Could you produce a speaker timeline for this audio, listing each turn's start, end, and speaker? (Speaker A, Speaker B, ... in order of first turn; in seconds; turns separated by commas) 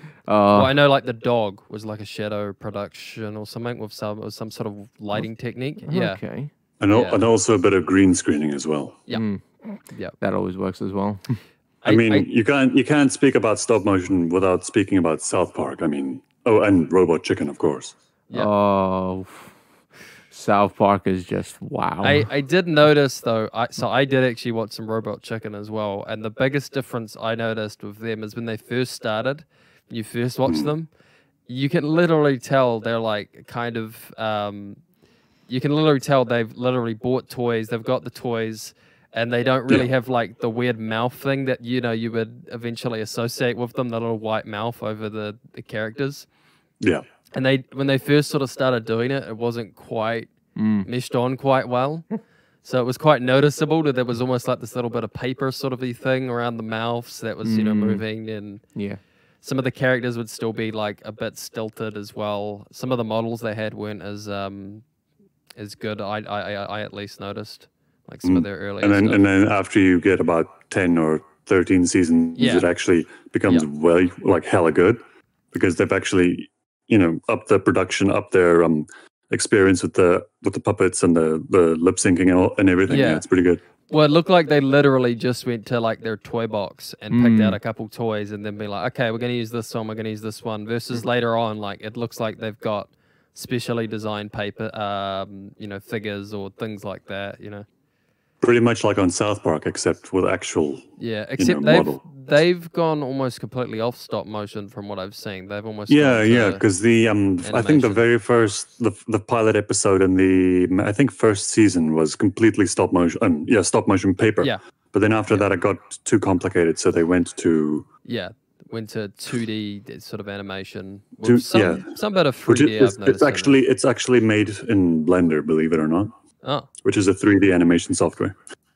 Speaker A: 0.3-0.7, Speaker B: 0.5-6.2, Speaker A: 5.8-6.5, Speaker C: 6.8-9.0, Speaker B: 6.9-7.2, Speaker A: 9.1-9.7, Speaker A: 10.2-11.3, Speaker B: 11.8-12.3, Speaker C: 11.8-17.9, Speaker A: 18.3-19.5, Speaker A: 20.3-22.3, Speaker B: 22.0-30.9, Speaker B: 31.5-34.8, Speaker B: 35.5-46.3, Speaker B: 47.3-50.3, Speaker A: 50.6-50.9, Speaker B: 50.9-52.1, Speaker B: 52.6-58.6, Speaker A: 57.4-58.0, Speaker B: 59.4-64.8, Speaker B: 65.6-69.2, Speaker C: 68.2-75.0, Speaker B: 72.4-72.7, Speaker C: 75.5-83.6, Speaker B: 82.9-83.2, Speaker B: 83.9-97.7, Speaker A: 87.1-87.6, Speaker C: 98.4-100.9, Speaker B: 101.0-106.6, Speaker C: 101.4-102.0, Speaker C: 105.9-117.9, Speaker B: 107.4-108.1, Speaker B: 118.0-123.6, Speaker C: 121.2-121.9, Speaker C: 122.5-126.1, Speaker B: 126.4-126.7, Speaker C: 126.8-128.4